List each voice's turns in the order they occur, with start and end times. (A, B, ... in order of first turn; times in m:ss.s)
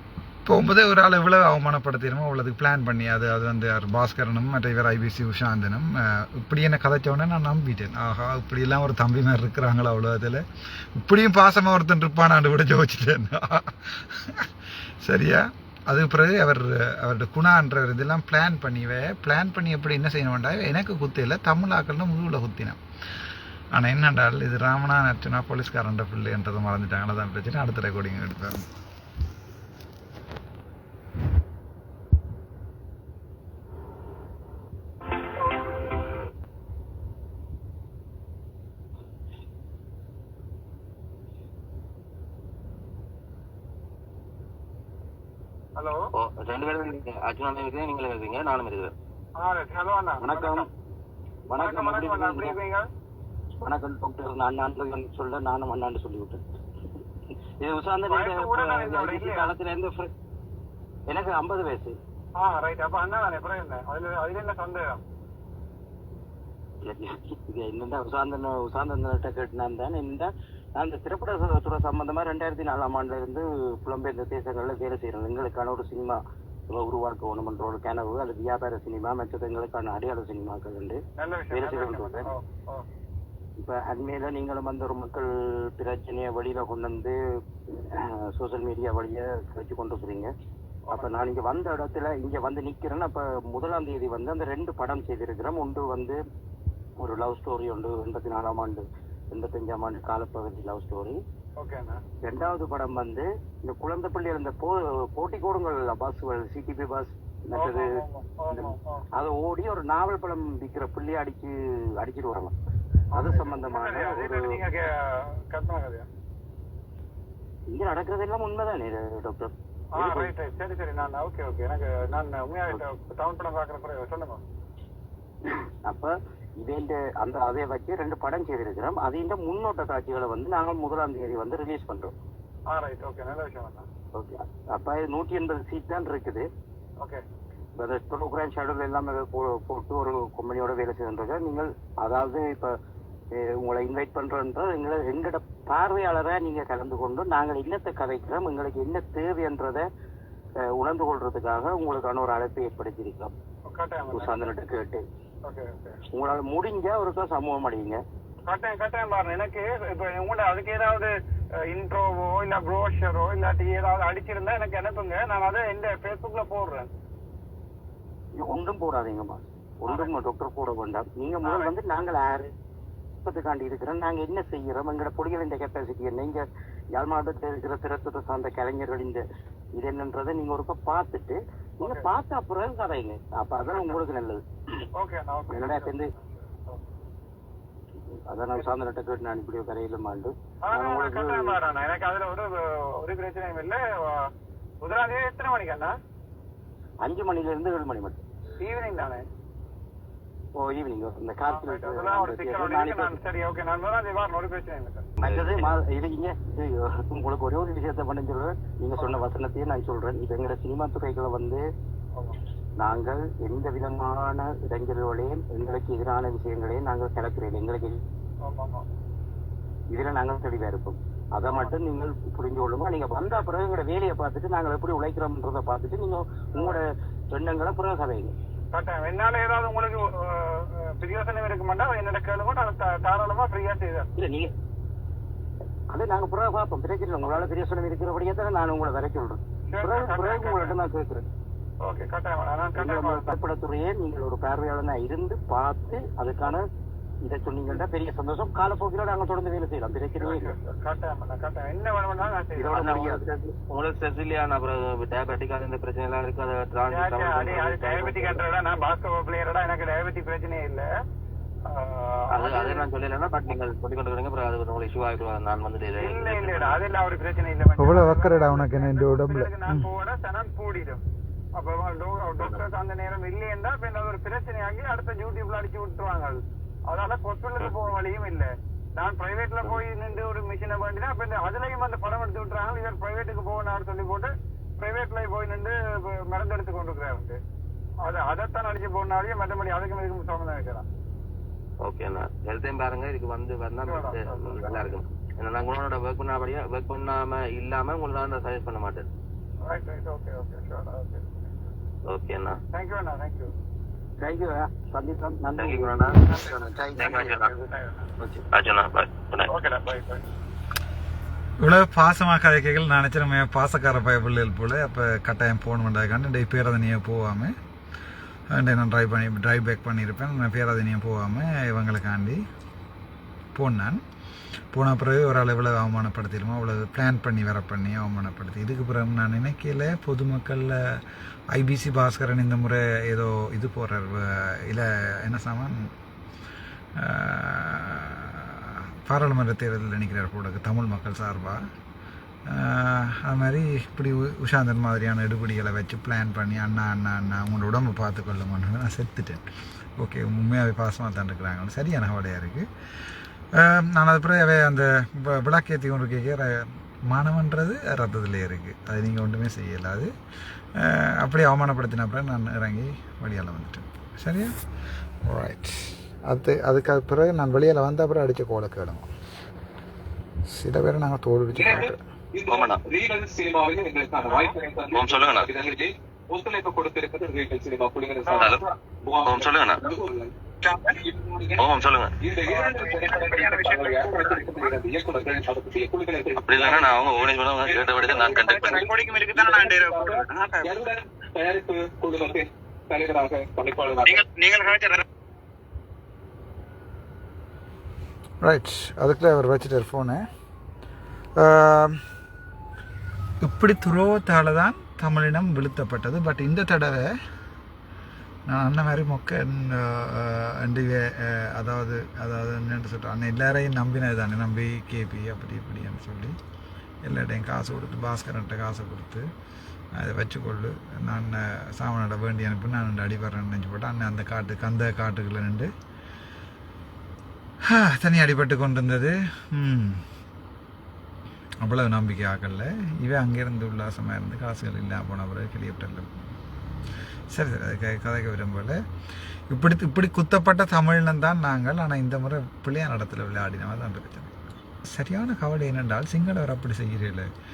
0:00.4-0:10.4 A
0:11.0-0:14.5 A
0:15.0-0:22.8 A
0:23.7-0:28.6 A
0:46.2-0:48.9 B
0:49.4-0:50.7 C
0:50.2-0:50.7 D
0:51.5-0:52.6 D
0:51.6-0:52.9 C
0:53.6-0:56.4 D
0:57.6-1:00.1 D
0:58.1-0:59.5 C
1:01.1-1:02.0 D
1:02.4-1:05.0 C
1:06.8-1:16.2 D
1:16.7-1:21.0 D
1:21.2-1:22.8 C
1:21.5-1:22.3 D
1:23.6-1:27.2 D
1:27.7-1:30.3 D
1:30.9-1:36.2 D
1:37.0-1:41.2 D
1:41.6-1:42.0 C
1:42.2-1:48.0 D
1:47.5-1:49.0 C
1:48.5-1:52.5 D
1:53.1-1:56.1 C
1:53.1-1:54.5 D
1:57.7-2:00.3 D
1:59.9-2:04.4 C
2:05.8-2:12.2 D
2:12.7-2:13.9 C
2:14.1-2:16.5 D
2:17.8-2:22.7 D
2:23.4-2:29.8 D
2:30.7-2:33.3 D
2:33.7-2:34.5 C
2:34.1-2:35.0 D
2:35.4-2:36.0 C
2:36.1-2:38.0 D
2:38.5-2:41.1 C
2:41.6-2:46.9 C
2:48.4-2:52.5 D
2:51.4-2:51.7 C
2:53.2-2:56.4 D
2:56.9-2:59.2 D
2:59.8-3:04.4 D
3:01.8-3:02.1 C
3:03.7-3:03.9 C
3:05.0-3:06.8 C
3:05.5-3:06.1 D
3:08.3-3:11.6 D
3:10.6-3:14.3 C
3:14.8-3:15.9 C
3:17.0-3:18.2 D
3:18.6-3:19.2 C
3:20.6-3:23.2 D
3:21.5-3:25.1 C
3:25.2-3:25.7 B
3:25.2-3:31.6 D
3:29.0-3:29.3 C
3:32.8-3:38.0 D
3:38.4-3:38.8 C
3:39.9-3:48.4 D
3:41.5-3:41.7 C
3:48.7-3:54.1 C
3:54.2-3:54.5 D
3:55.9-4:01.2 D
3:59.7-4:00.7 C
4:01.8-4:03.4 C
4:02.8-4:06.6 D
4:07.2-4:10.5 D
4:10.2-4:12.9 C
4:12.6-4:13.2 D
4:12.8-4:18.4 B
4:16.9-4:20.9 C
4:21.7-4:22.9 C
4:22.3-4:26.8 B
4:26.0-4:31.0 C
4:27.8-4:29.9 A
4:31.6-4:47.4 C
4:48.0-4:50.8 C
4:51.8-4:59.1 B
4:53.8-4:55.0 C
4:59.6-5:01.5 C
5:02.1-5:02.6 B
5:02.7-5:03.5 C
5:04.2-5:07.5 D
5:05.6-5:06.2 B
5:06.2-5:08.1 C
5:07.0-5:07.5 B
5:08.5-5:09.5 B
5:09.5-5:10.2 C
5:11.6-5:17.5 A
5:18.5-5:22.4 A
5:23.6-5:24.0 A
5:24.7-5:31.0 A
5:31.5-5:35.9 A
5:37.0-5:41.6 A
5:42.5-5:49.4 A
5:50.0-5:52.7 A
5:53.6-6:00.1 A
6:00.8-6:04.5 A
6:05.2-6:09.1 A
6:10.5-6:12.0 A
6:11.6-6:20.3 E
6:12.5-6:12.8 B
6:14.2-6:14.6 C
6:14.9-6:15.5 B
6:18.2-6:18.5 C
6:18.3-6:18.6 B
6:19.2-6:19.8 B
6:20.6-6:20.9 C
6:20.9-6:34.2 E
6:21.6-6:22.1 B
6:22.4-6:24.5 C
6:26.4-6:28.7 B
6:28.4-6:30.8 C
6:34.0-6:35.0 C
6:38.4-6:40.2 A
6:41.4-6:42.0 A
6:43.4-6:47.1 A
6:48.5-6:56.4 A
6:57.0-6:59.2 A
7:00.0-7:05.7 A
7:07.7-7:10.0 A
7:11.6-7:16.1 A
7:17.3-7:18.8 A
7:19.5-7:24.3 A
7:24.9-7:27.3 A